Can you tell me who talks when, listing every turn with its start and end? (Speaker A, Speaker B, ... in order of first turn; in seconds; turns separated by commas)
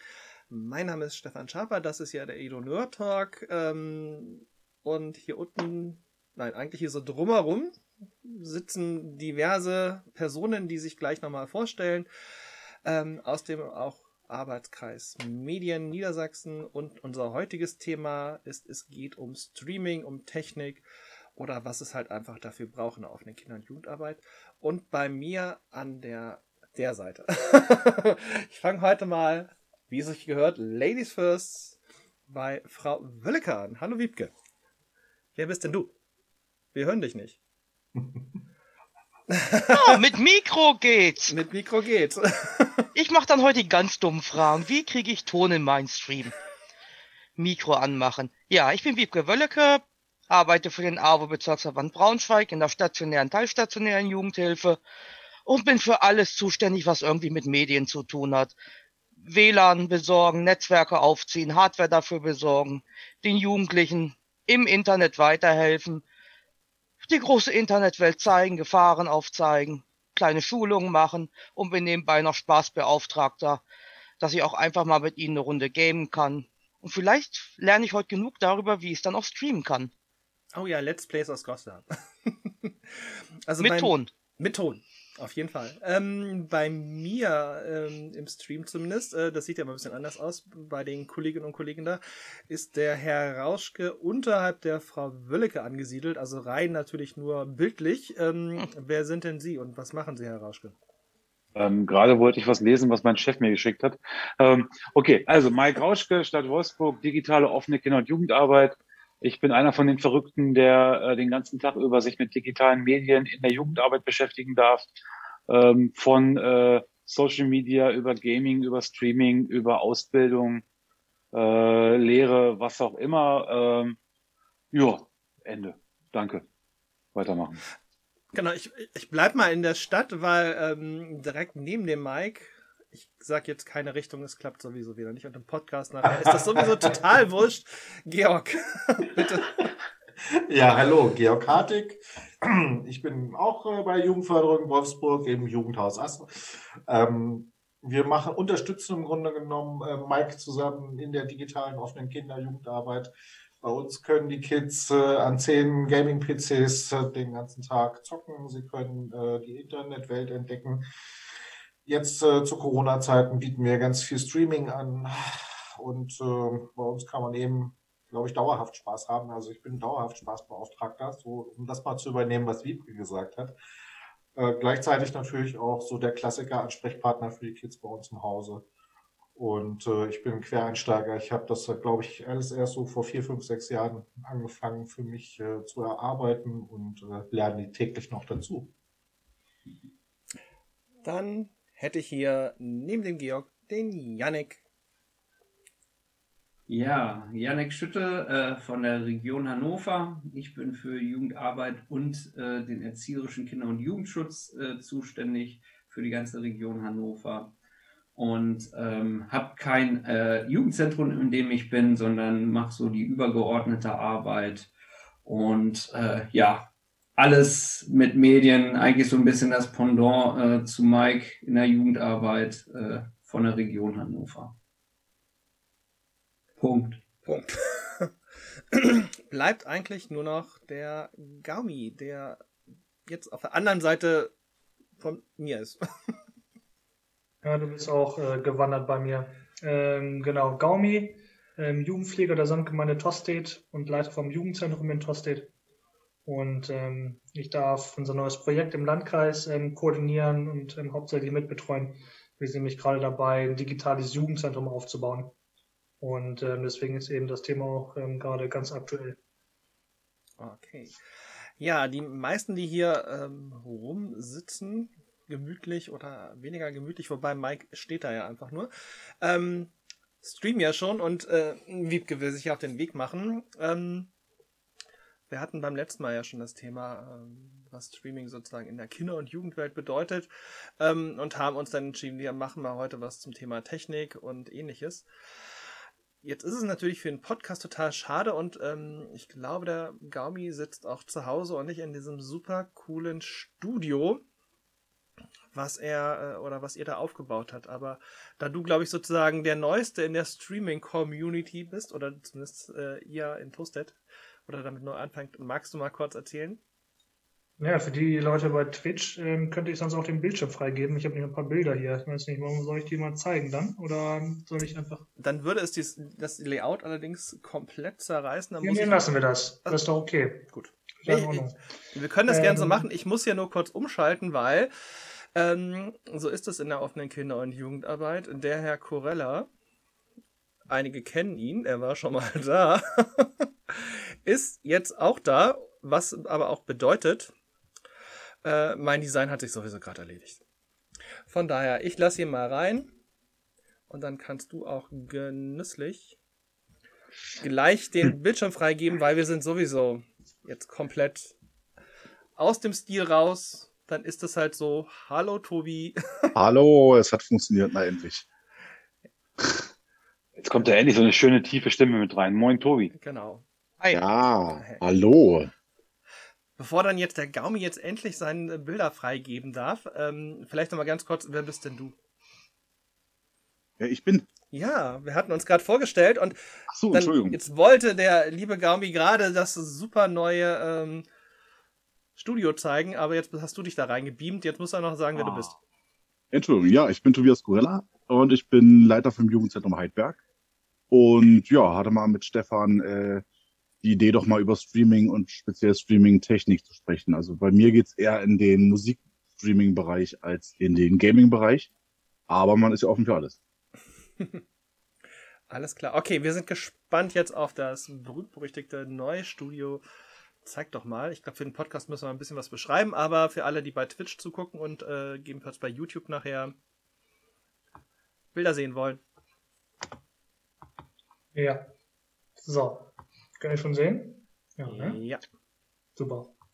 Speaker A: 0.5-12.1, Speaker A: 12.8-20.8, Speaker A: 21.4-31.8, Speaker A: 32.3-34.3, Speaker A: 35.4-35.9, Speaker A: 36.7-37.4, Speaker A: 39.3-40.0, Speaker B: 39.7-41.3, Speaker A: 41.3-42.8, Speaker B: 42.9-46.3, Speaker B: 47.4-54.8, Speaker B: 55.5-58.5, Speaker B: 59.2-66.0, Speaker B: 67.0-73.6, Speaker B: 74.2-79.9, Speaker A: 80.5-100.8, Speaker B: 83.6-84.1, Speaker C: 101.5-114.9, Speaker C: 115.5-120.6, Speaker C: 121.3-124.0, Speaker C: 124.7-126.4, Speaker C: 127.1-127.6, Speaker A: 128.3-139.7, Speaker D: 136.3-136.9, Speaker D: 140.5-160.8, Speaker D: 161.8-173.6, Speaker D: 174.3-178.7, Speaker D: 179.3-188.7, Speaker A: 191.0-194.6, Speaker E: 196.7-207.5, Speaker E: 208.2-214.7, Speaker E: 215.2-224.6, Speaker E: 226.6-227.0, Speaker A: 227.2-228.1, Speaker A: 228.7-232.4, Speaker A: 233.1-234.3, Speaker A: 235.0-235.8, Speaker F: 237.4-245.5, Speaker F: 246.2-255.3, Speaker F: 256.0-259.2, Speaker A: 260.4-261.0, Speaker A: 261.6-268.7, Speaker A: 269.2-269.7, Speaker A: 270.2-274.1, Speaker A: 275.3-280.3, Speaker A: 280.8-285.1, Speaker A: 286.2-294.2, Speaker A: 295.5-303.9, Speaker A: 304.5-306.6, Speaker F: 307.6-315.1, Speaker A: 315.2-319.1, Speaker F: 318.6-320.5, Speaker A: 320.5-324.7, Speaker F: 321.0-321.6, Speaker F: 322.3-322.8, Speaker A: 325.3-329.5, Speaker A: 330.7-337.3, Speaker A: 338.4-340.4, Speaker A: 341.3-342.9, Speaker A: 343.9-346.2, Speaker A: 347.4-351.3, Speaker A: 352.4-356.3, Speaker G: 356.3-358.2, Speaker C: 360.4-362.9, Speaker A: 362.9-363.4, Speaker G: 363.9-365.5, Speaker A: 364.5-364.8, Speaker A: 366.6-371.9, Speaker G: 373.8-374.2, Speaker A: 374.5-376.4, Speaker G: 376.7-377.4, Speaker A: 376.9-381.0, Speaker A: 382.1-385.6, Speaker G: 385.2-385.5, Speaker G: 386.3-390.2, Speaker G: 390.9-393.2, Speaker G: 393.8-401.7, Speaker G: 402.3-403.4, Speaker A: 405.5-409.8, Speaker A: 410.4-416.5, Speaker A: 418.3-419.0, Speaker F: 421.3-421.7, Speaker F: 422.4-425.0, Speaker A: 424.6-425.2, Speaker F: 426.0-426.4